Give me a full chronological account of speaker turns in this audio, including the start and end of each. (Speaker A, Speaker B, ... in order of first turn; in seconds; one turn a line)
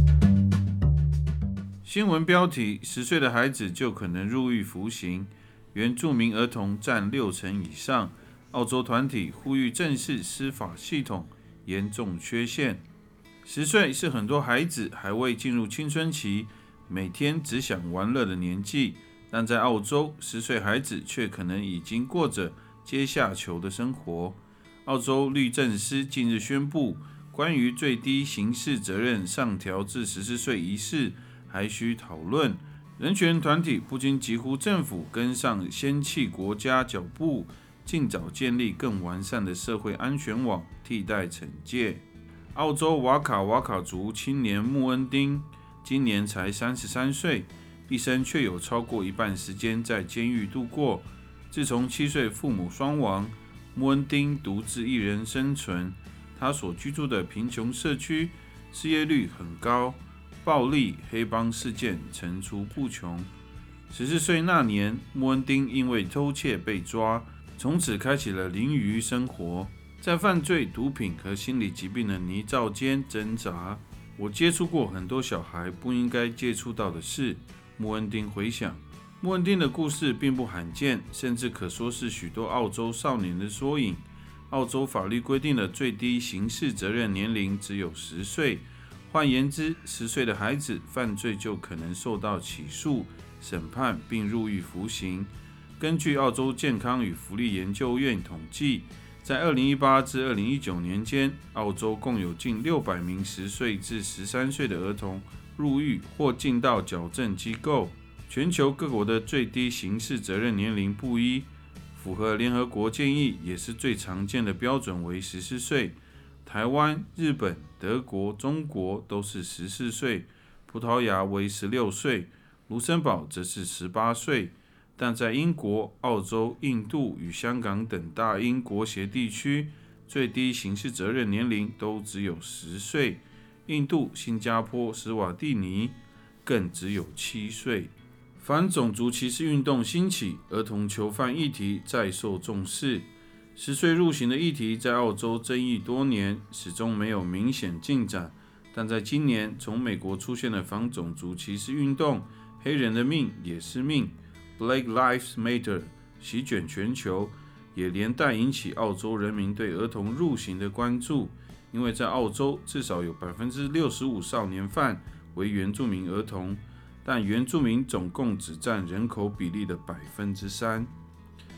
Speaker A: 1.8-12.8
Speaker A: 13.4-63.3
Speaker A: 63.9-170.9